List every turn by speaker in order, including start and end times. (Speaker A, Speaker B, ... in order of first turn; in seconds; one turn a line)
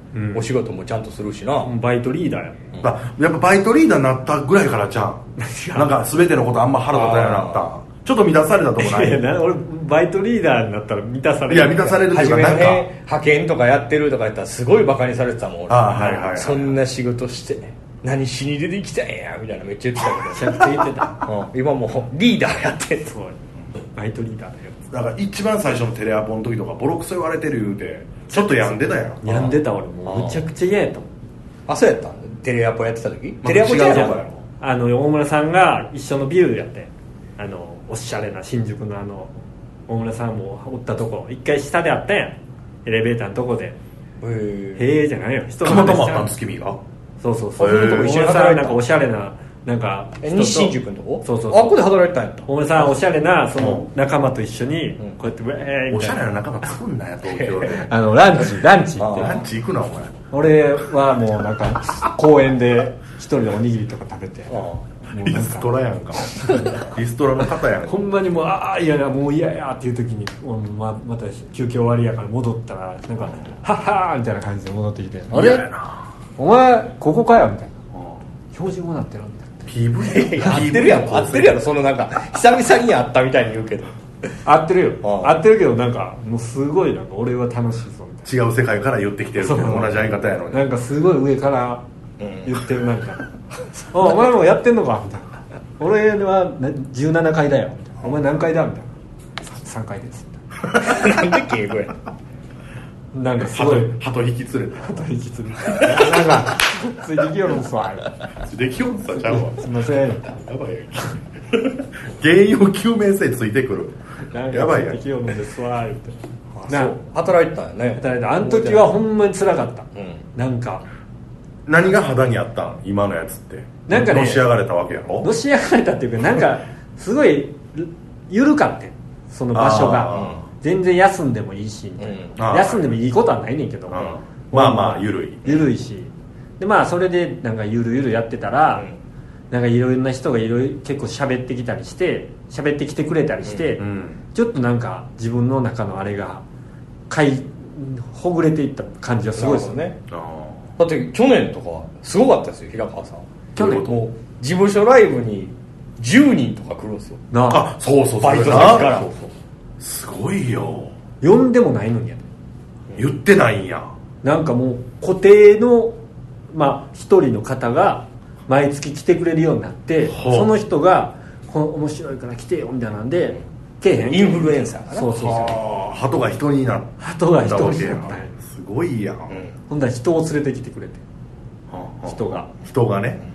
Speaker A: 0.1-0.5
Speaker B: 0.3-1.7
Speaker A: 1.6-2.7
Speaker C: 2.8-9.2
Speaker A: 5.4-5.9
Speaker B: 6.9-7.7
Speaker A: 8.8-12.1
Speaker C: 11.5-12.9
Speaker B: 12.1-23.1
Speaker C: 15.7-16.8
Speaker A: 20.3-21.2
Speaker A: 23.1-23.4
Speaker A: 23.9-24.8
Speaker C: 24.9-29.2
Speaker A: 28.3-31.1
Speaker B: 29.3-29.5
Speaker B: 30.1-30.4
Speaker B: 31.7-34.2
Speaker C: 33.4-34.4
Speaker A: 33.9-43.8
Speaker B: 44.2-44.9
Speaker A: 44.8-46.3
Speaker C: 45.6-46.8
Speaker A: 47.2-51.8
Speaker B: 47.6-48.8
Speaker C: 47.6-48.1
Speaker B: 50.2-52.9
Speaker A: 52.5-56.4
Speaker C: 53.6-53.9
Speaker C: 55.9-57.9
Speaker B: 57.2-57.8
Speaker A: 57.7-59.4
Speaker B: 59.0-59.4
Speaker C: 59.1-60.1
Speaker A: 60.3-65.7
Speaker B: 64.5-64.8
Speaker C: 65.2-68.1
Speaker B: 66.5-66.8
Speaker A: 67.9-75.7
Speaker C: 75.3-76.1
Speaker A: 76.4-77.7
Speaker C: 77.9-78.2
Speaker A: 78.5-79.7
Speaker C: 79.7-81.6
Speaker B: 80.0-84.0
Speaker A: 80.4-80.8
Speaker A: 84.5-88.3
Speaker B: 85.0-85.4
Speaker C: 88.2-90.7
Speaker A: 89.4-91.8
Speaker B: 92.2-92.6
Speaker A: 92.5-93.2
Speaker A: 93.9-100.4
Speaker B: 100.8-102.0
Speaker A: 103.1-103.9
Speaker C: 103.4-105.1
Speaker A: 104.8-108.1
Speaker C: 108.4-109.7
Speaker A: 109.3-110.4
Speaker C: 110.3-114.0
Speaker A: 114.3-116.2
Speaker C: 114.5-115.0
Speaker B: 116.5-119.0
Speaker A: 116.7-117.0
Speaker A: 118.0-120.8
Speaker B: 120.0-120.2
Speaker C: 121.7-125.3
Speaker A: 123.9-124.5
Speaker A: 125.2-138.9
Speaker C: 129.5-130.4
Speaker B: 130.1-130.4
Speaker B: 132.0-132.3
Speaker C: 132.4-132.9
Speaker C: 133.9-135.6
Speaker A: 139.5-143.8
Speaker B: 143.4-143.8
Speaker C: 143.8-144.2
Speaker A: 144.3-146.4
Speaker A: 147.1-149.8
Speaker B: 149.4-150.0
Speaker C: 150.1-150.6
Speaker B: 150.8-157.2
Speaker C: 153.6-154.0
Speaker A: 157.3-157.7
Speaker C: 157.5-159.3
Speaker B: 158.2-159.1
Speaker C: 159.8-160.9
Speaker A: 161.2-162.3
Speaker C: 163.0-163.9
Speaker A: 164.2-166.0
Speaker A: 166.5-175.6
Speaker C: 170.1-170.5
Speaker B: 174.1-175.4
Speaker C: 175.2-179.4
Speaker A: 177.0-178.3
Speaker A: 179.7-181.0
Speaker C: 181.7-183.2
Speaker A: 182.1-182.5